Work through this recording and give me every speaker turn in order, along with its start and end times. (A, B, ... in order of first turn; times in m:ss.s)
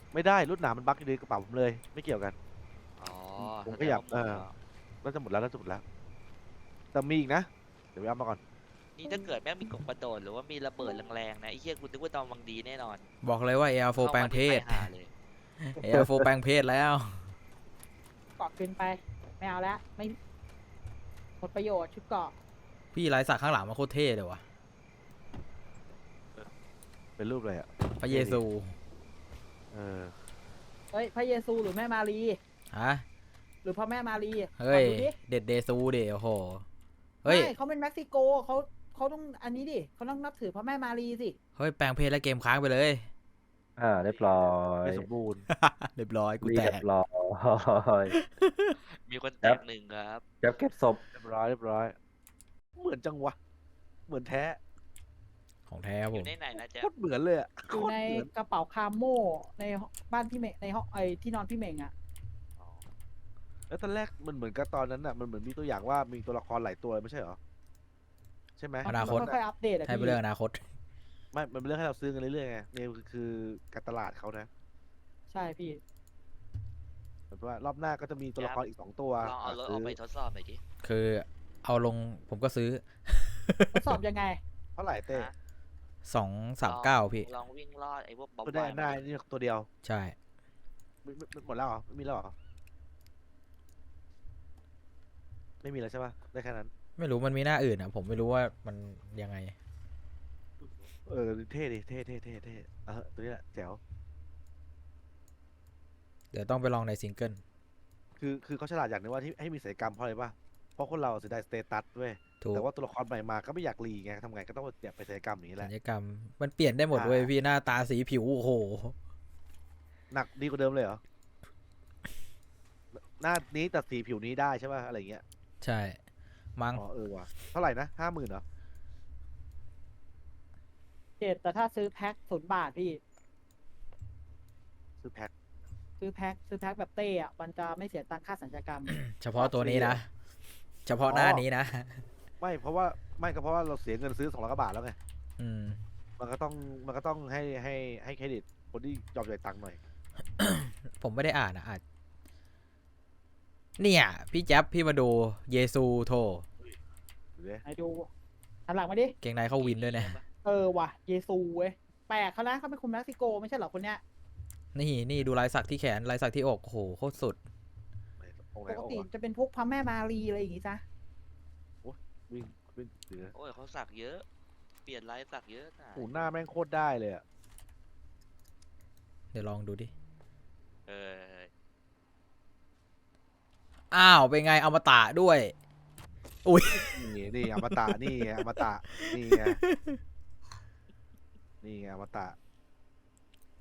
0:00.1-0:02.4 A
0:03.0-0:04.5 B
0:03.6-0:04.5 A
0:05.0-0:05.8 A
0:06.9-0:08.4 A
0:09.0-0:13.1 B
0:13.2-0:14.9 C
0:14.0-0:15.1 B
0:15.6-0:17.2 C
0:18.4-0:20.2 D
0:21.4-0:22.3 D
0:22.9-0:24.4 C
0:27.2-0:28.4 A
0:28.0-0:28.8 C
0:29.7-0:30.1 A
0:30.9-0:32.4 D
0:32.7-0:33.0 C
0:33.6-0:35.1 D
0:34.6-0:36.6 C
0:37.2-0:37.5 C
0:37.2-0:41.4 D
0:41.6-0:43.1 C
0:43.8-0:45.0 E
0:44.0-0:45.4 A
0:45.5-0:46.8 C
0:46.4-0:48.1 E
0:48.1-0:48.7 C
0:48.9-0:50.2 B
0:50.4-0:51.0 E
0:51.1-0:52.0 A
0:52.8-0:53.4 A
0:54.1-0:54.6 A
0:55.7-0:56.3 C
0:56.1-0:56.9 B
0:56.6-0:58.3 A
0:57.7-1:01.9 D
1:02.6-1:02.8 A
1:03.7-1:07.4 A
1:08.6-1:09.4 A
1:08.8-1:10.2 D
1:08.8-1:09.3 C
1:09.8-1:10.6 C
1:11.3-1:14.5 A
1:15.3-1:15.8 D
1:17.3-1:20.0 A
1:18.4-1:18.6 B
1:19.2-1:20.6 B
1:20.8-1:23.9 C
1:23.7-1:24.4 D
1:24.8-1:25.3 A
1:26.0-1:27.3 C
1:26.6-1:29.0 B
1:28.4-1:29.7 A
1:29.8-1:30.2 C
1:31.0-1:32.3 A
1:35.6-1:36.7 A
1:37.0-1:39.5 C
1:40.6-1:43.8 A
1:46.3-1:47.4 C
1:48.2-1:55.7 A
1:52.4-1:52.6 C
1:55.6-1:59.0 C
1:56.9-1:57.3 A
2:00.1-2:01.0 A
2:02.9-2:05.2 A
2:05.6-2:06.0 C
2:06.6-2:06.8 C
2:06.7-2:08.4 A
2:11.2-2:13.0 D
2:15.0-2:15.3 A
2:16.0-2:19.0 D
2:18.9-2:20.1 C
2:19.4-2:20.0 A
2:20.8-2:22.0 C
2:21.0-2:21.4 A
2:22.4-2:25.0 A
2:25.4-2:25.8 C
2:26.2-2:29.8 A
2:30.4-2:31.8 C
2:33.8-2:36.4 C
2:37.4-2:37.6 A
2:37.6-2:38.1 D
2:38.7-2:39.2 D
2:39.2-2:40.2 C
2:39.6-2:40.2 B
2:40.4-2:44.0 D
2:44.7-2:47.4 C
2:48.2-2:49.0 A
2:48.7-2:50.8 D
2:51.8-2:53.3 A
2:53.3-2:54.2 B
2:54.8-2:56.3 B
2:55.9-2:57.2 A
2:59.3-2:59.9 C
3:00.9-3:01.5 B
3:03.9-3:05.5 C
3:06.4-3:10.0 C
3:06.8-3:09.6 A
3:11.6-3:12.4 A